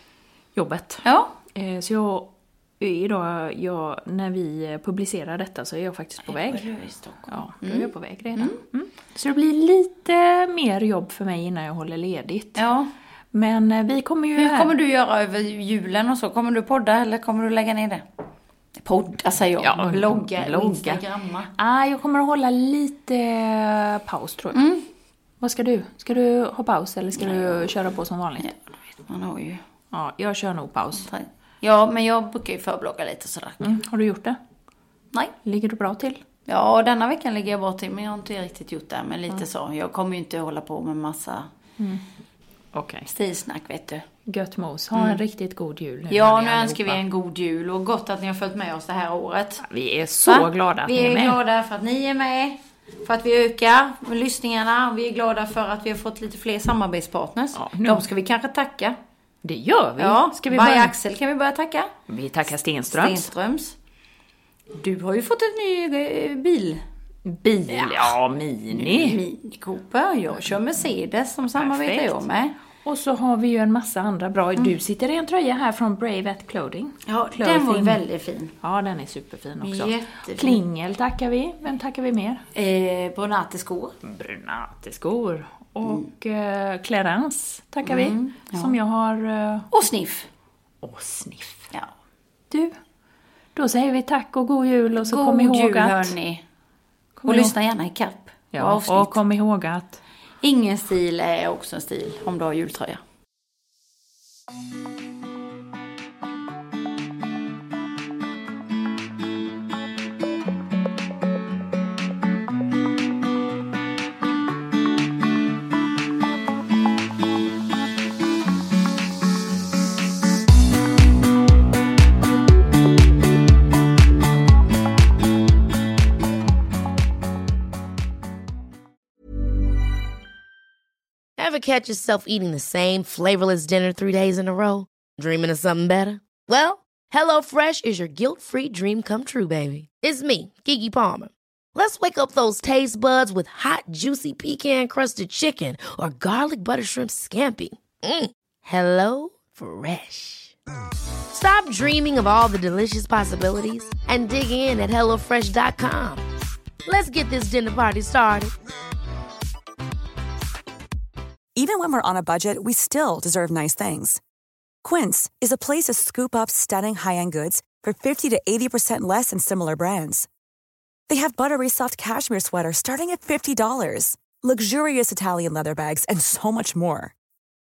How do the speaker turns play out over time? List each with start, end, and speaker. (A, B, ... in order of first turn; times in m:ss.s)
0:00.6-0:06.7 A
0:01.0-0:01.3 B
0:06.2-0:08.6 B
0:07.3-0:12.6 A
0:12.6-0:12.9 B
0:13.3-0:14.7 A
0:14.4-0:18.0 B
0:18.8-0:21.5 B
0:19.6-0:21.0 A
0:21.6-0:24.6 A
0:24.5-0:24.8 B
0:25.4-0:28.5 A
0:27.2-0:27.7 B
0:29.1-0:29.6 B
0:29.9-0:31.1 A
0:31.0-0:33.7 B
0:33.6-0:34.4 A
0:35.4-0:36.2 A
0:36.5-0:41.5 B
0:42.7-0:43.1 A
0:43.1-0:44.0 B
0:44.3-0:47.0 A
0:44.9-0:45.2 B
0:46.1-0:49.6 B
0:49.6-0:51.4 A
0:50.3-0:59.0 B
0:57.6-0:58.0 A
0:59.4-1:00.9 A
1:00.0-1:01.9 B
1:02.1-1:03.3 A
1:02.9-1:03.8 B
1:04.7-1:06.8 B
1:07.2-1:09.2 A
1:07.7-1:08.2 B
1:08.7-1:12.6 B
1:11.5-1:12.2 A
1:12.8-1:18.0 A
1:17.1-1:18.5 B
1:18.6-1:22.4 A
1:19.6-1:20.6 B
1:22.5-1:24.0 B
1:24.0-1:29.7 A
1:27.8-1:28.8 B
1:29.7-1:30.3 B
1:30.8-1:31.7 A
1:33.6-1:36.1 A
1:35.0-1:36.4 B
1:37.2-1:37.6 A
1:37.2-1:39.2 B
1:38.5-1:40.0 A
1:40.4-1:43.0 B
2:11.4-2:30.6 C
2:31.3-2:36.2 C
2:36.9-2:38.5 C
2:41.6-2:44.2 D
2:44.8-2:50.3 D
2:51.1-2:57.1 D